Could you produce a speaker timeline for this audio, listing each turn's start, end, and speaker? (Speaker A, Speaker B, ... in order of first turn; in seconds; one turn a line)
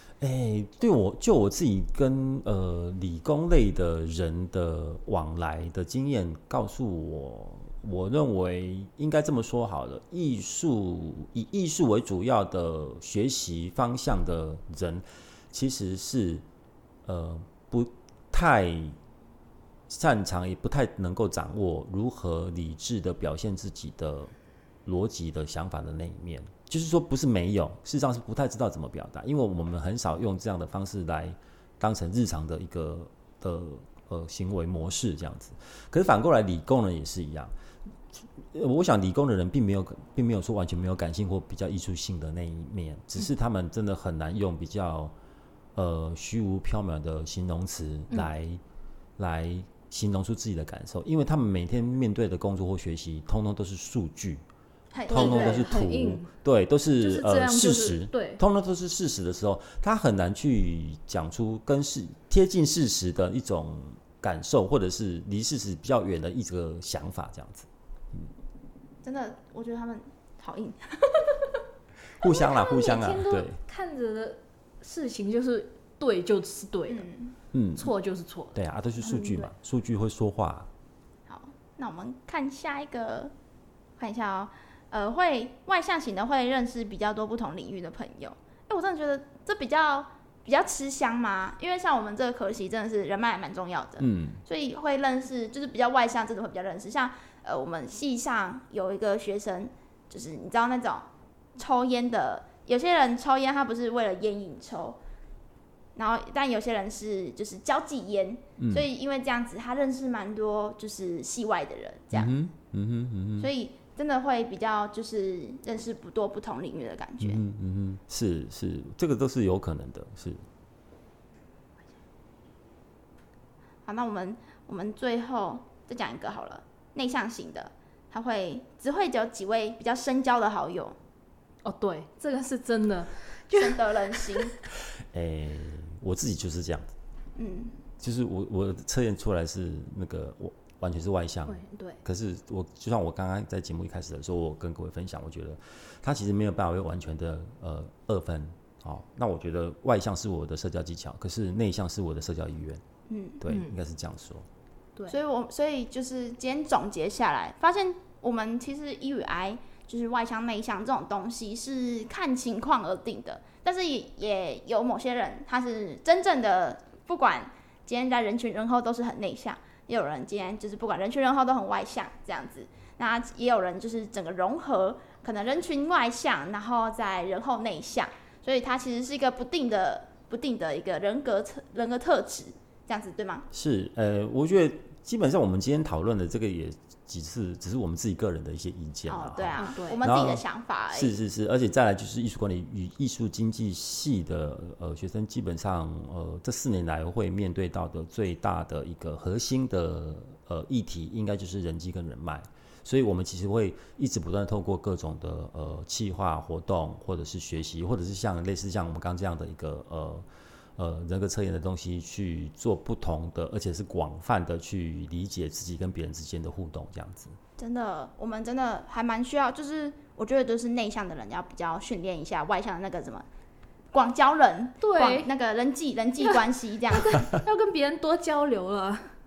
Speaker A: 0.2-16.4
Speaker A: 17.0-19.0
Speaker A: 19.9-24.3
Speaker A: 24.8-37.5
Speaker A: 38.4-45.1
Speaker A: 45.7-48.6
Speaker A: 49.2-54.4
Speaker B: 54.9-55.6
Speaker C: 55.0-56.3
Speaker A: 55.1-68.3
Speaker C: 57.0-58.4
Speaker B: 69.0-70.8
Speaker A: 72.2-73.6
Speaker C: 72.2-77.1
Speaker B: 76.9-77.3
Speaker A: 77.5-77.9
Speaker C: 77.8-79.5
Speaker A: 78.5-80.7
Speaker B: 81.3-83.3
Speaker B: 84.0-105.0
Speaker A: 94.0-94.4
Speaker B: 106.0-112.3
Speaker A: 108.6-108.8
Speaker A: 112.1-113.5
Speaker B: 113.4-117.4
Speaker A: 117.2-120.4
Speaker B: 123.8-131.0
Speaker C: 131.6-134.5
Speaker B: 133.5-134.5
Speaker A: 135.1-136.9
Speaker B: 137.4-137.8
Speaker A: 138.0-152.8
Speaker C: 141.5-142.0
Speaker B: 153.1-153.4
Speaker A: 153.4-154.5
Speaker C: 153.5-153.7
Speaker B: 155.1-183.5
Speaker A: 183.5-210.2
Speaker B: 189.1-191.1
Speaker C: 189.6-190.0
Speaker A: 210.8-217.4
Speaker B: 217.6-223.2
Speaker B: 223.9-227.2
Speaker C: 224.8-225.3
Speaker C: 226.2-229.1